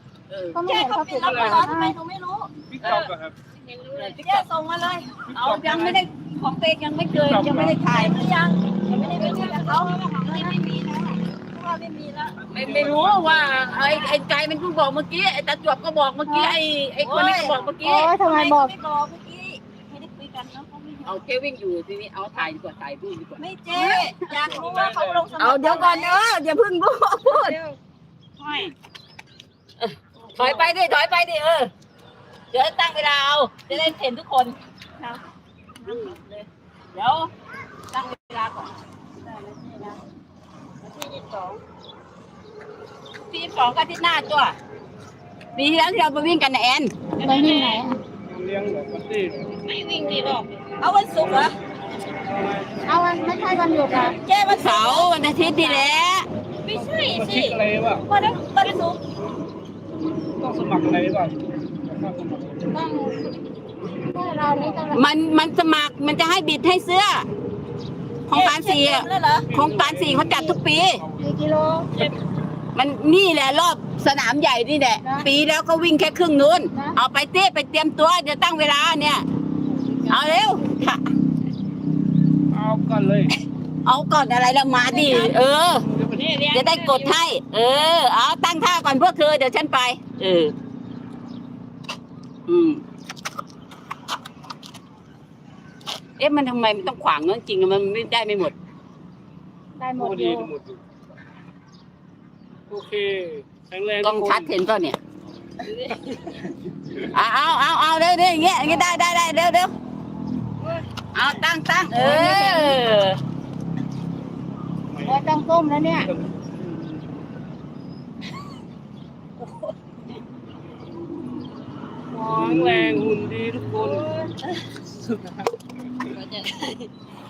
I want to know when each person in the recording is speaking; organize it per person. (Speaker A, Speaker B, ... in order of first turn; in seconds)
Speaker A: 0.3-0.6, 4.0-4.5, 5.3-8.2, 9.0-10.0, 12.5-18.1, 21.1-24.3, 25.4-27.6, 28.4-28.7, 29.8-31.7, 32.5-34.6, 35.9-36.2, 36.9-37.3, 37.9-38.8, 43.3-44.6, 45.6-47.1, 54.5-56.3, 64.9-67.3, 68.3-71.0, 72.8-79.2, 80.1-81.1, 83.8-85.9, 86.5-90.5, 92.5-92.8, 96.2-98.5, 104.0-105.0, 107.0-109.7, 111.1-113.2
Speaker B: 0.5-2.0, 16.3-16.6, 17.8-18.7, 47.2-48.0, 52.9-54.2, 62.7-63.3, 64.0-65.0, 71.2-71.9, 75.0-75.3, 99.8-100.5, 112.3-112.7, 115.0-116.1
Speaker C: 0.7-5.3, 7.8-12.4, 13.7-14.2, 17.0-21.2, 23.4-26.2, 27.2-27.8, 30.2-30.7, 35.0-35.2, 35.8-36.5, 39.2-40.0, 40.8-41.6, 47.2-47.8, 49.6-51.6, 53.9-55.9, 56.6-59.0, 68.3-69.5, 84.8-85.4, 86.0-87.2, 110.6-110.9, 112.0-112.6, 123.7-124.1, 126.1-126.9
Speaker D: 1.2-1.7, 2.7-3.4, 5.3-6.0, 7.2-7.8, 12.3-13.7, 24.4-25.4, 48.3-49.5, 51.2-51.5, 52.2-53.9, 56.7-58.0, 60.4-62.8, 69.5-71.3, 82.5-83.4, 100.0-100.8, 102.7-104.5, 114.9-115.2, 116.0-117.0, 122.1-124.1, 124.9-125.4